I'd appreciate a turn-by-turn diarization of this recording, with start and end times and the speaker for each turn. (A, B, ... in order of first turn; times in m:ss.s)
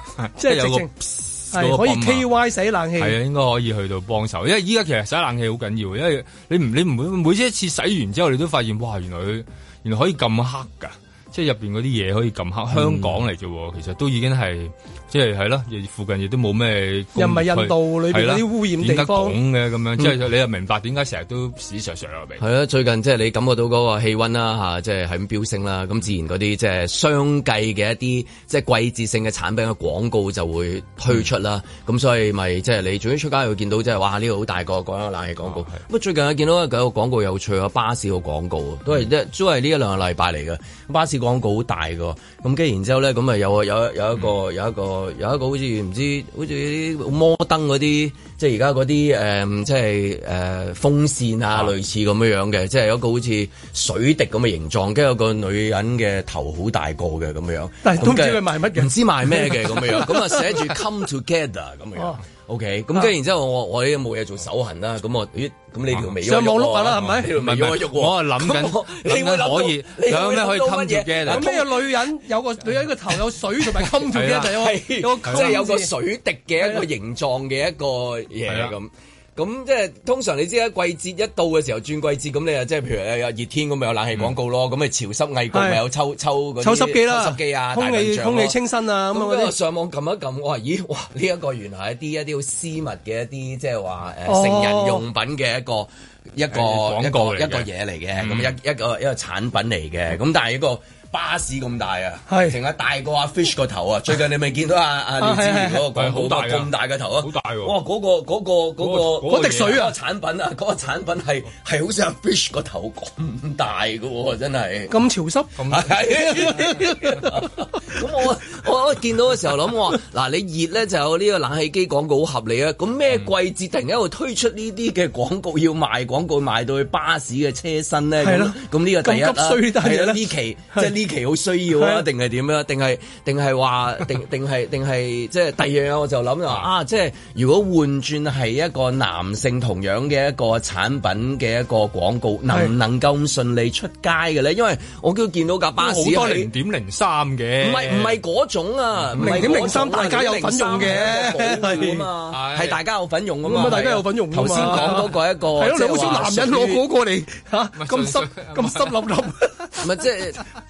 0:00.2-0:02.3 A
0:00.4-0:00.9 B
0:01.5-0:03.2 B
0:03.0-0:22.4 A
0:12.7-0:13.2 C
0:17.2-0:19.4 B
0:22.4-1:11.6 C
0:35.4-0:35.8 A
0:57.8-1:00.2 B
1:06.2-1:07.3 B
1:07.3-1:11.7 A
1:11.2-1:15.9 B
1:14.1-1:14.6 A
1:14.3-1:28.6 C
1:15.2-1:15.5 A
1:18.4-1:18.7 A
1:25.5-1:25.8 B
1:26.6-1:29.5 B
1:29.1-1:54.9 C
1:34.3-1:35.0 B
1:36.5-1:38.5 A
1:42.3-1:42.6 B
1:45.2-1:45.8 B
1:45.9-1:47.7 A
1:48.8-1:49.8 A
1:49.2-1:49.9 B
1:54.9-1:55.6 B
1:55.6-1:56.6 A
1:55.7-2:26.5 C
1:56.3-1:56.8 B
2:08.2-2:10.9 B
2:11.7-2:12.1 B
2:25.8-2:28.2 A
2:27.6-2:36.8 C
2:29.0-2:29.6 A
2:29.2-2:32.0 B
2:32.3-2:32.8 A
2:33.4-2:39.8 B
2:34.7-2:35.0 A
2:37.8-2:39.0 A
2:39.8-2:40.4 C